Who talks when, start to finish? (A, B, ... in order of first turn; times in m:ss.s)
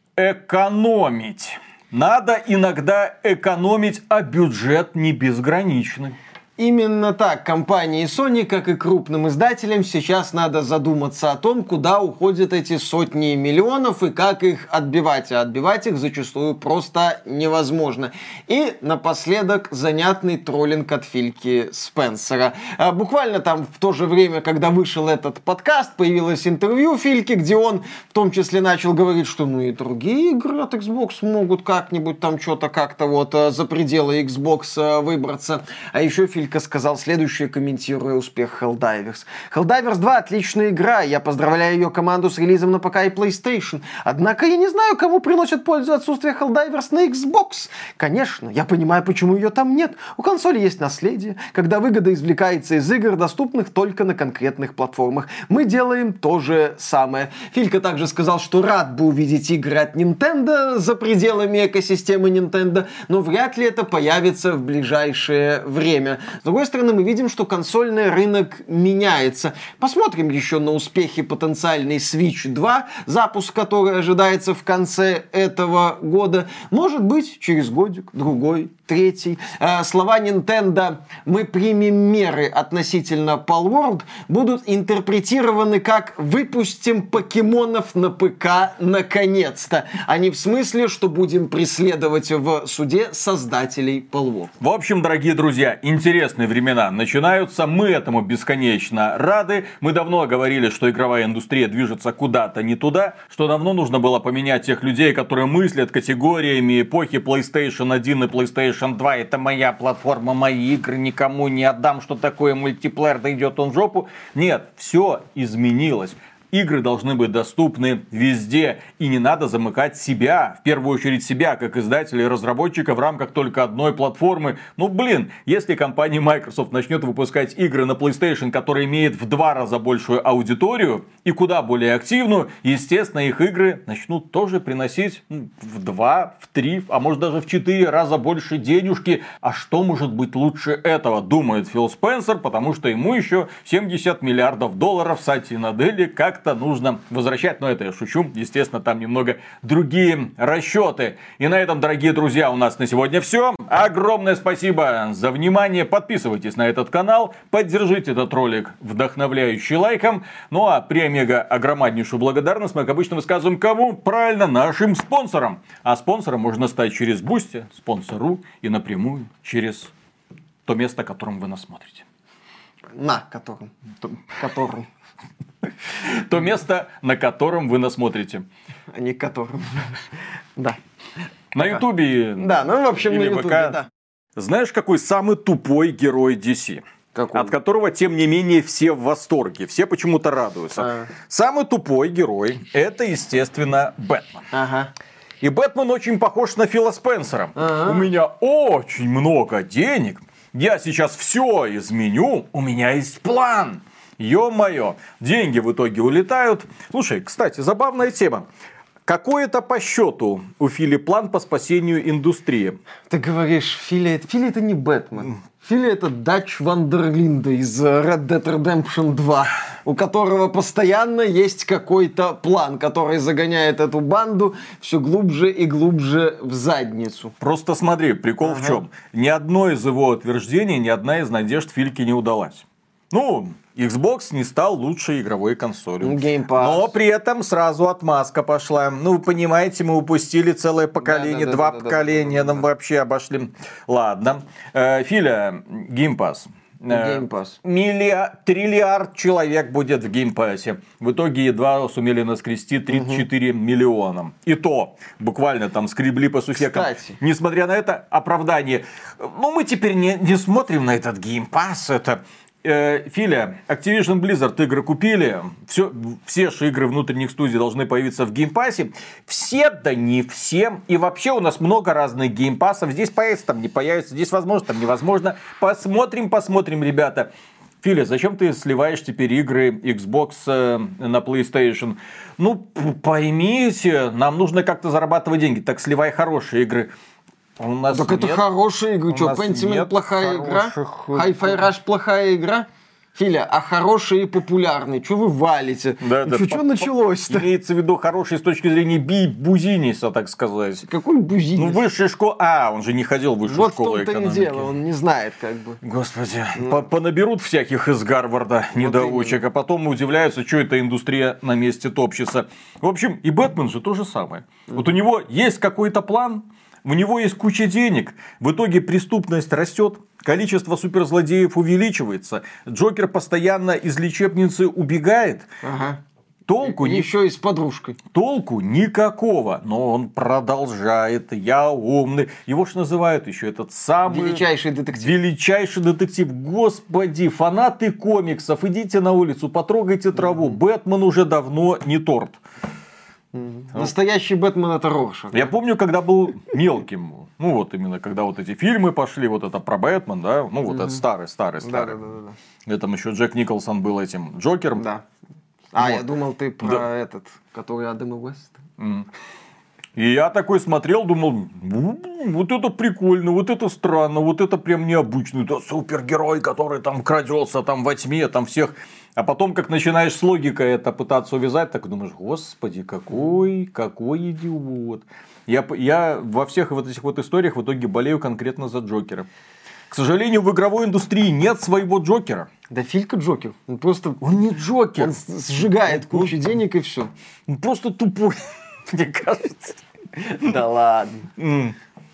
0:00.2-0:06.2 A
0:06.6-1:34.5 B
1:34.6-2:49.9 A
2:50.6-2:52.0 A
2:52.9-2:54.9 B
2:56.0-2:58.4 A
2:58.9-3:00.0 B
3:01.5-3:03.8 A
3:02.4-3:03.8 B
3:04.4-3:14.5 A
3:07.1-3:07.5 B
3:10.8-3:11.1 B
3:14.5-3:14.9 B
3:15.4-3:28.4 A
3:17.6-3:18.1 B
3:29.1-3:32.8 A
3:33.1-3:47.3 B
3:47.4-4:37.3 A
3:48.4-3:48.8 B
3:56.0-3:56.9 B
4:01.0-4:02.6 B
4:06.9-4:07.6 B
4:12.9-4:13.2 B
4:16.6-4:17.2 B
4:37.8-4:46.9 A
4:47.6-4:48.4 A
4:47.9-4:57.5 B
4:49.1-4:51.7 A
4:56.0-5:00.9 A
5:00.8-5:01.8 B
5:01.6-5:04.7 A
5:03.5-5:05.8 B
5:05.8-5:25.5 A
5:06.6-5:06.8 B
5:08.7-5:09.4 B
5:25.6-5:26.0 B
5:26.5-5:27.1 A
5:26.6-5:28.0 B
5:28.1-5:42.4 A
5:34.0-5:35.1 B
5:40.2-5:40.6 B
5:43.3-5:45.5 B
5:45.3-5:52.0 A
5:50.7-5:51.0 B
5:51.6-5:52.3 B
5:52.7-5:54.8 A
5:54.8-5:55.0 B
5:55.7-5:58.6 B
5:55.8-5:56.0 A
5:58.8-5:59.1 A
6:00.0-6:19.3 A
6:19.9-6:22.5 A
6:22.7-6:24.3 B
6:24.2-6:25.1 A
6:24.9-6:27.1 B
6:25.8-6:26.4 A
6:27.5-6:29.8 A
6:30.2-6:31.3 B
6:31.4-6:31.7 A